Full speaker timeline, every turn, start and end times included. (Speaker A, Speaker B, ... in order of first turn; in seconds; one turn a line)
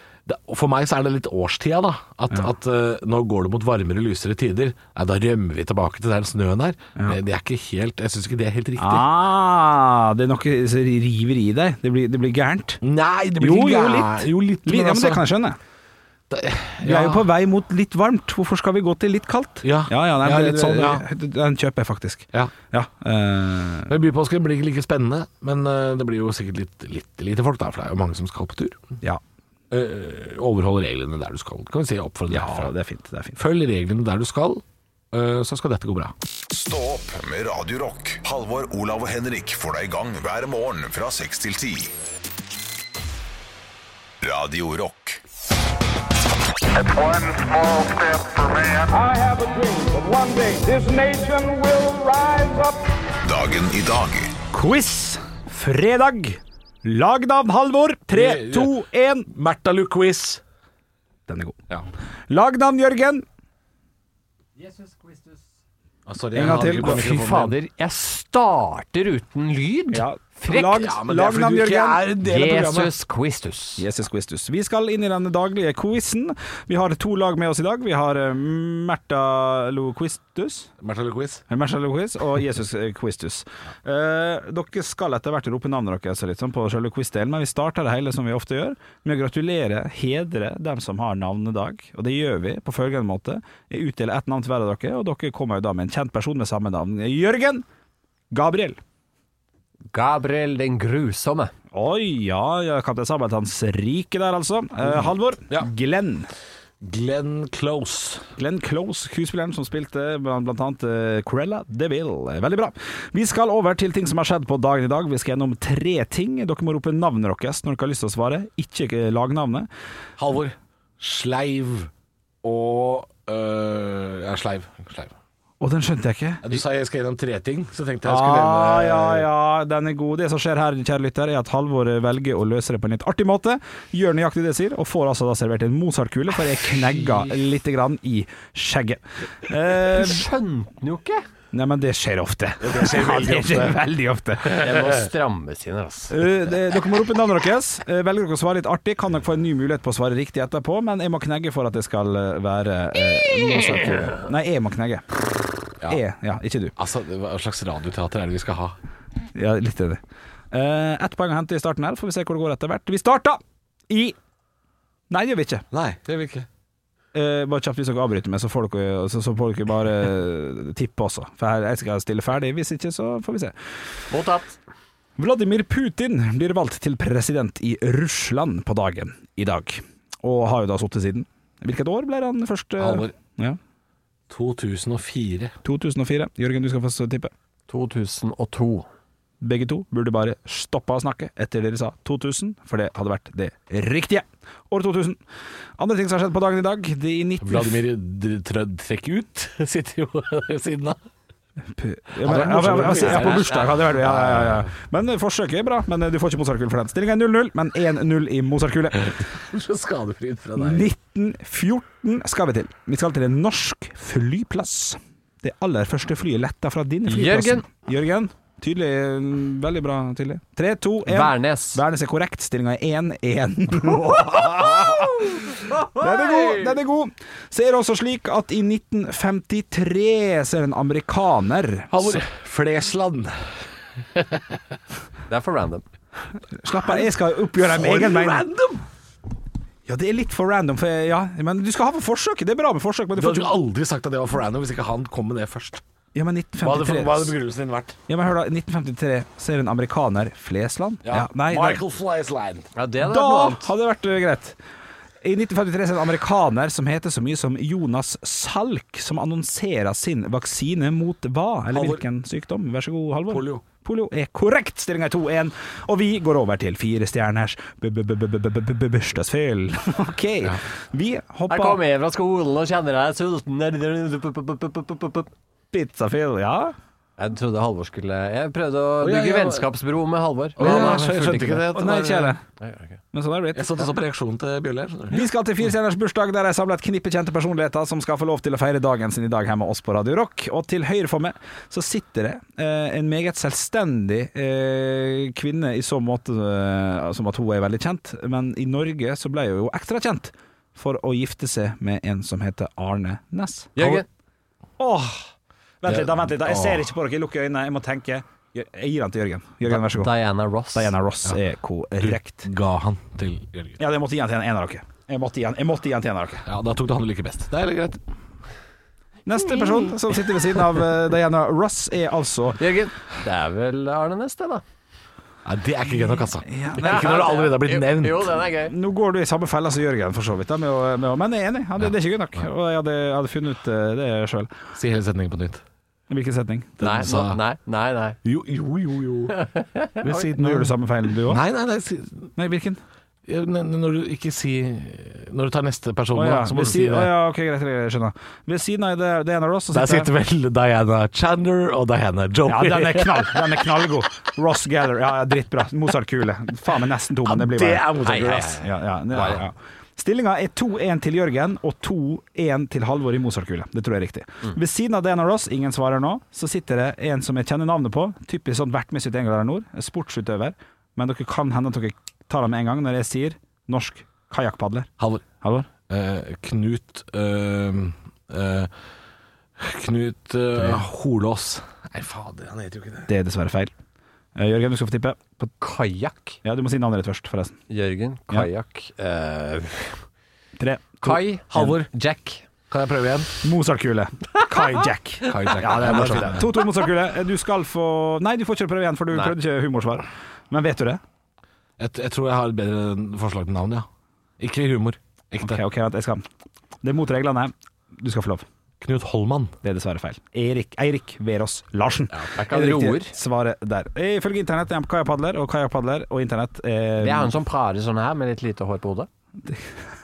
Speaker A: 0.3-9.1
Speaker B: 8.8-12.8
Speaker A: 12.8-15.2
Speaker B: 13.4-15.6
Speaker A: 16.3-17.3
Speaker B: 16.8-23.9
Speaker A: 19.6-21.1
Speaker A: 23.9-28.9
Speaker A: 29.7-32.7
Speaker B: 32.3-33.4
Speaker A: 33.4-36.1
Speaker C: 36.5-41.9
Speaker C: 44.2-45.2
Speaker D: 46.8-49.0
Speaker E: 48.9-52.8
Speaker C: 53.2-54.3
Speaker B: 54.5-59.3
Speaker A: 58.1-60.4
Speaker B: 61.3-61.6
Speaker B: 62.3-63.2
Speaker F: 64.6-65.4
Speaker A: 66.1-67.6
Speaker B: 66.3-67.1
Speaker F: 66.5-70.8
Speaker B: 69.9-72.0
Speaker A: 70.6-72.9
Speaker F: 72.2-73.8
Speaker B: 73.8-80.7
Speaker A: 80.8-81.4
Speaker B: 81.5-97.7
Speaker B: 98.3-98.8
Speaker F: 99.9-101.5
Speaker B: 101.7-106.3
Speaker A: 106.8-108.3
Speaker B: 108.4-119.7
Speaker A: 120.2-121.9
Speaker A: 122.4-125.2
Speaker B: 125.6-126.6
Speaker A: 126.4-129.3
Speaker B: 128.0-140.2
Speaker F: 139.8-141.2
Speaker B: 141.5-144.7
Speaker A: 142.6-143.8
Speaker A: 144.4-144.9
Speaker F: 144.5-146.3
Speaker B: 146.1-155.1
Speaker B: 155.9-156.8
Speaker A: 156.8-158.8
Speaker B: 159.3-160.0
Speaker B: 160.5-164.2
Speaker B: 165.1-165.7
Speaker A: 165.7-166.5
Speaker B: 167.1-173.5
Speaker F: 174.1-174.6
Speaker B: 175.2-183.6
Speaker A: 182.8-183.1
Speaker A: 184.3-185.5
Speaker B: 185.6-187.3
Speaker F: 187.7-188.9
Speaker B: 189.4-195.2
Speaker B: 195.8-197.8
Speaker A: 197.4-201.0
Speaker B: 201.7-209.2
Speaker A: 202.2-204.7
Speaker F: 202.3-203.8
Speaker A: 209.2-210.9
Speaker B: 210.6-232.2
Speaker F: 217.1-217.7
Speaker F: 221.1-221.8
Speaker F: 224.0-226.8
Speaker A: 231.9-234.6
Speaker F: 235.3-235.8
Speaker B: 236.6-238.5
Speaker A: 236.8-238.8
Speaker B: 239.9-243.6
Speaker A: 243.2-245.8
Speaker B: 246.1-247.4
Speaker A: 246.6-248.0
Speaker B: 248.1-251.8
Speaker A: 251.1-252.7
Speaker F: 252.8-253.7
Speaker B: 253.0-254.6
Speaker B: 255.2-271.8
Speaker A: 261.7-262.0
Speaker A: 263.3-263.6
Speaker F: 271.5-275.3
Speaker B: 275.7-276.8
Speaker F: 277.2-281.7
Speaker A: 279.0-279.7
Speaker A: 280.6-282.4
Speaker B: 280.6-281.0
Speaker B: 281.8-282.4
Speaker F: 282.6-283.0
Speaker B: 283.1-283.9
Speaker A: 283.6-285.3
Speaker B: 285.1-303.7
Speaker F: 303.8-304.1
Speaker A: 303.8-304.0
Speaker B: 304.8-305.3
Speaker B: 305.8-310.1
Speaker A: 305.9-306.9
Speaker F: 309.7-310.9
Speaker B: 310.7-312.5
Speaker A: 312.0-313.8
Speaker B: 313.8-316.4
Speaker A: 316.5-318.0
Speaker B: 319.3-322.6
Speaker F: 322.6-324.6
Speaker A: 325.4-328.4
Speaker B: 326.4-327.1
Speaker F: 326.8-328.7
Speaker B: 328.7-334.5
Speaker A: 334.8-335.6
Speaker B: 336.1-336.8
Speaker A: 336.8-337.4
Speaker F: 336.8-338.2
Speaker A: 338.2-339.5
Speaker F: 339.4-340.1
Speaker A: 340.0-342.3
Speaker B: 340.1-341.4
Speaker B: 342.4-342.8
Speaker A: 343.3-347.1
Speaker B: 346.1-350.1
Speaker A: 349.7-353.5
Speaker B: 352.5-358.0
Speaker A: 357.3-358.6
Speaker F: 358.0-358.6
Speaker B: 358.6-374.9
Speaker F: 359.1-359.4
Speaker A: 375.0-375.2
Speaker B: 375.4-375.7
Speaker A: 375.9-378.7
Speaker A: 379.6-383.1
Speaker B: 383.1-383.7
Speaker B: 384.4-385.5
Speaker F: 385.6-386.4
Speaker B: 386.4-387.6
Speaker F: 387.7-390.0
Speaker B: 390.6-391.7
Speaker F: 391.0-392.4
Speaker A: 391.6-391.9
Speaker A: 392.7-393.3
Speaker B: 393.4-401.0
Speaker A: 395.2-396.4
Speaker A: 401.8-403.9
Speaker A: 404.4-405.6
Speaker B: 405.4-406.3
Speaker B: 406.8-408.5
Speaker A: 408.8-409.5
Speaker B: 409.6-417.4
Speaker F: 412.4-413.1
Speaker F: 417.0-419.1
Speaker B: 419.4-419.8